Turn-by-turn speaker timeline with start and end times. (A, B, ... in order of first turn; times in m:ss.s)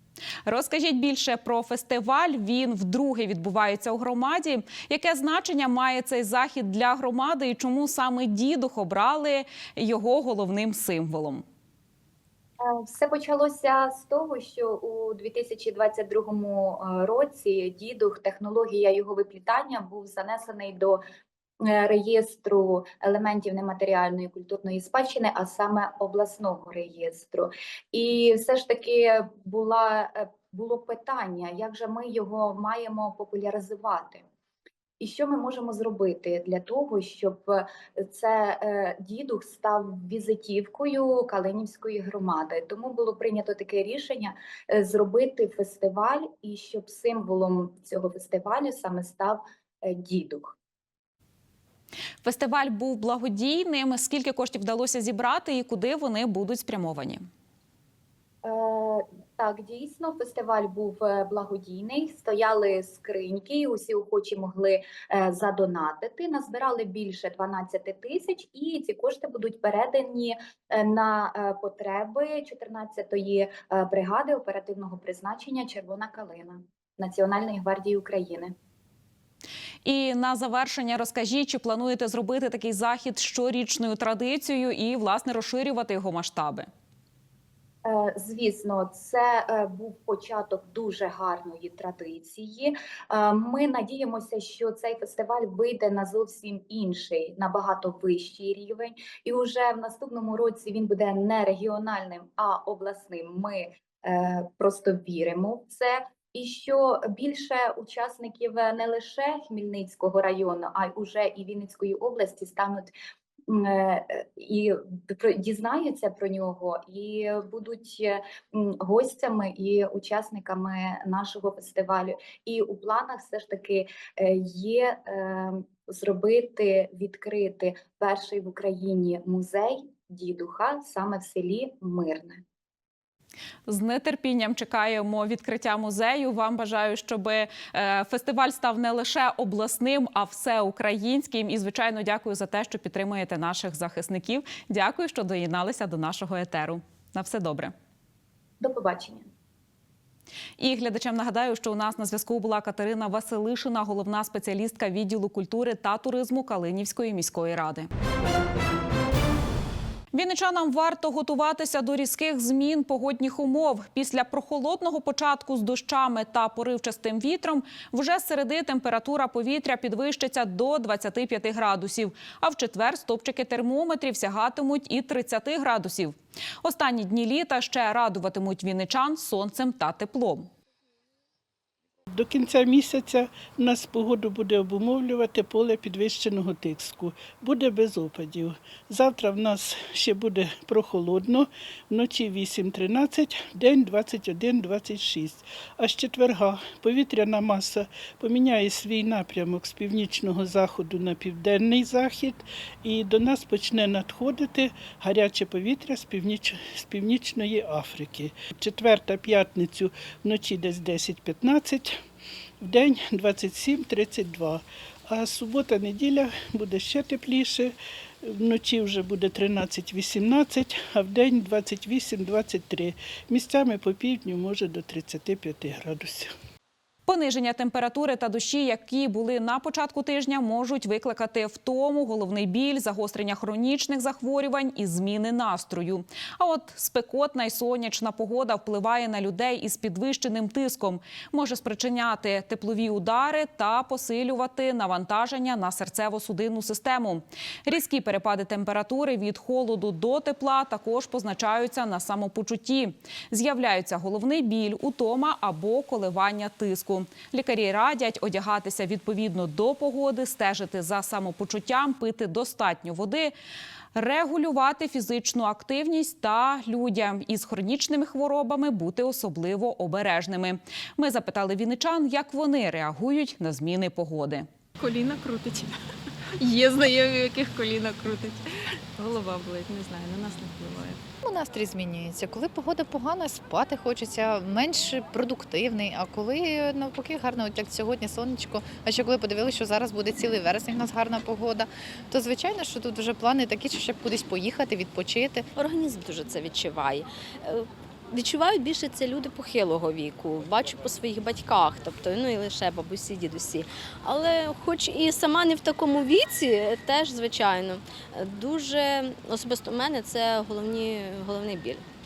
0:00.4-0:11.4 A
0:12.6-0:21.0 B
0:21.6-0:34.2 B
0:35.0-0:50.5 B
0:52.2-0:57.2 A
0:58.4-1:18.5 B
1:19.8-1:26.7 A
1:27.8-1:52.9 B
1:53.5-2:12.4 B
2:13.7-2:27.7 A
2:28.6-2:29.3 B
2:30.6-2:37.9 A
2:40.1-3:00.5 A
3:02.1-3:32.0 C
3:32.6-3:46.3 C
3:47.1-4:23.3 A
4:23.9-4:34.5 A
4:37.2-4:38.3 D
4:39.0-4:40.9 D
4:41.2-4:55.4 E
4:55.6-5:11.8 F